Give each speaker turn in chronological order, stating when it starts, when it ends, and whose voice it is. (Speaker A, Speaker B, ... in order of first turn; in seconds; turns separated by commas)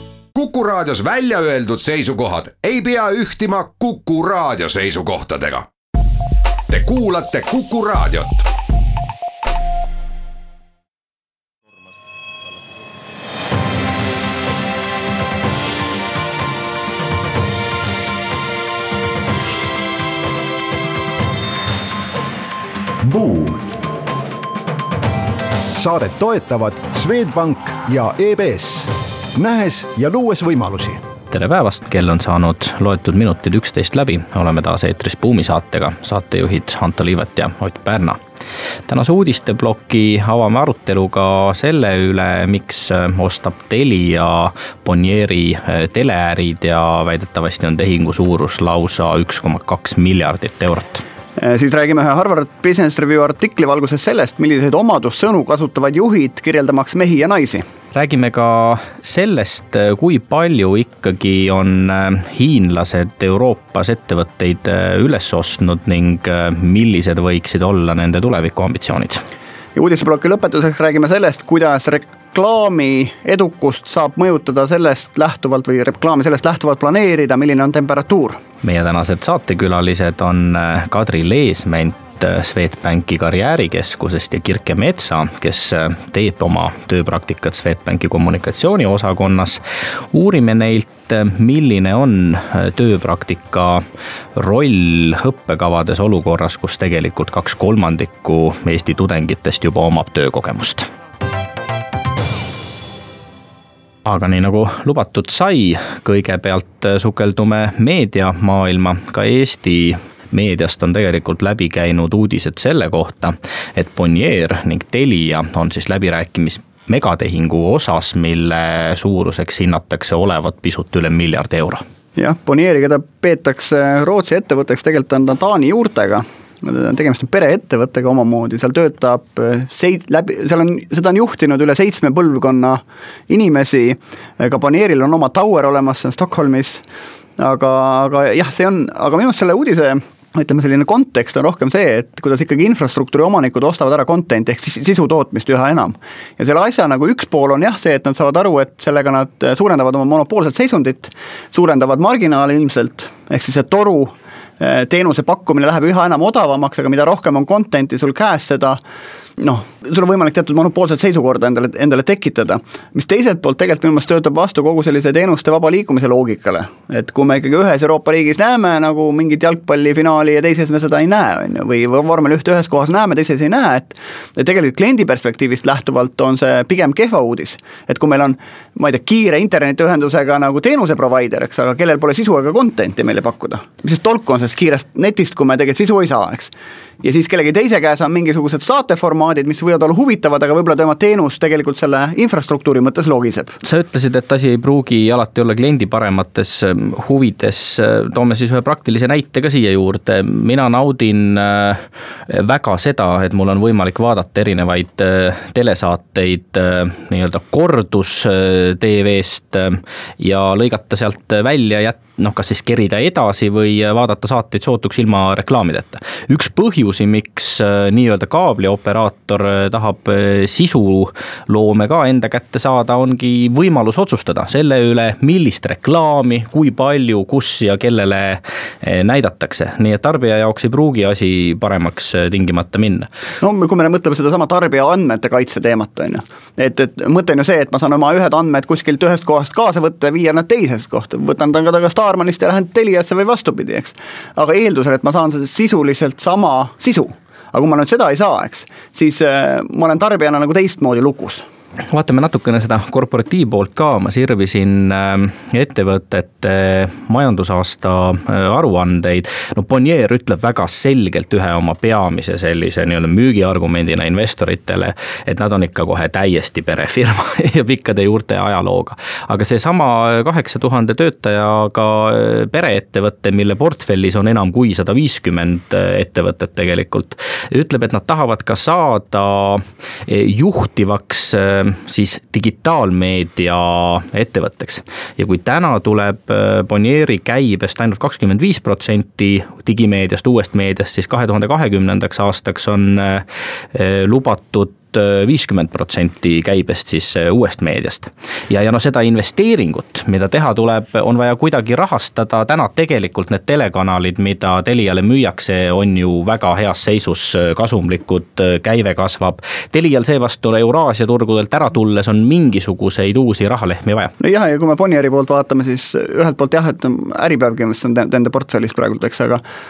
Speaker A: 0.3-5.7, Speaker A: 6.7-8.5, Speaker B: 23.0-23.7, Speaker B: 25.8-31.0, Speaker C: 31.3-38.2, Speaker C: 38.9-51.0, Speaker D: 51.4-57.7, Speaker C: 57.9-69.2, Speaker D: 69.8-78.4, Speaker C: 78.6-89.6, Speaker C: 90.1-93.8, Speaker C: 94.4-100.9, Speaker C: 104.0-121.8, Speaker D: 122.2-136.8, Speaker D: 137.4-158.8, Speaker D: 159.4-193.6, Speaker C: 193.6-233.1, Speaker D: 233.4-251.4, Speaker C: 251.9-314.1, Speaker D: 314.2-319.4